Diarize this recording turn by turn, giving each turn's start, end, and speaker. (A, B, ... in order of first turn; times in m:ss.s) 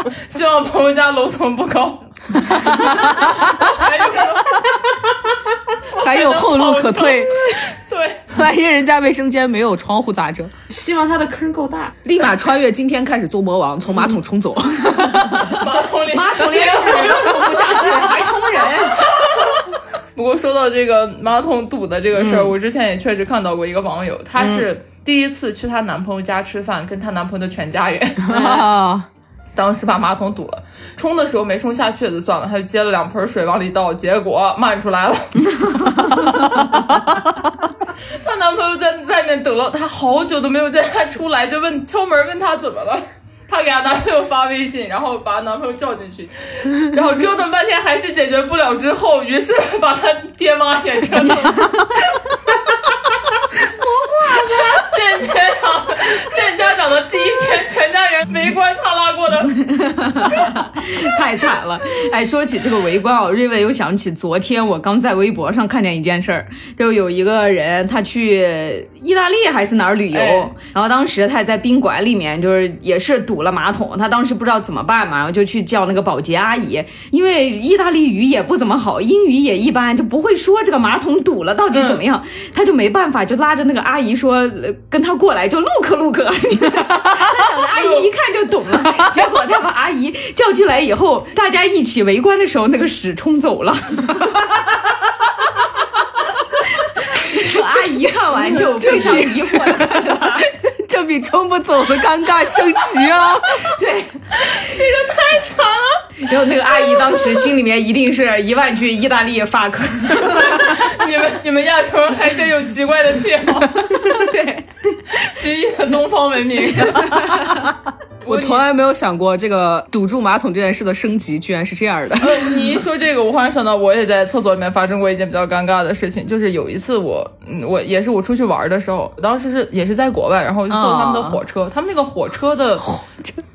0:00.3-0:04.9 A
0:02.5-0:03.6 B
0:06.0-0:08.3 A
0:06.0-0:07.6 B
0:08.3-0:10.5 B
0:10.7-0:12.0 C
0:12.0-0:15.6 B
0:15.4-0:19.5 A
0:16.1-0:19.0 D
0:20.2-0:28.5 A
0:22.2-0:22.5 B
0:24.4-0:24.6 D
0:28.2-0:29.1 B
0:28.3-0:28.6 D
0:29.6-0:36.3 A
0:38.2-0:52.0 A
0:53.7-0:54.9 C
0:54.8-0:59.6 A
0:59.8-1:34.3 D
1:10.1-1:10.5 A
1:21.7-1:22.0 A
1:27.7-1:28.1 A
1:37.0-1:40.4 D
1:38.5-1:43.7 B
1:43.6-1:44.1 D
1:44.4-1:46.1 A
1:46.2-1:50.7 D
1:50.2-1:54.1 A
1:54.0-1:54.7 D
1:55.1-1:57.4 A
1:58.2-1:58.7 A
1:58.3-2:02.6 B
2:02.2-2:12.9 A
2:10.7-2:11.4 B
2:12.9-2:13.3 B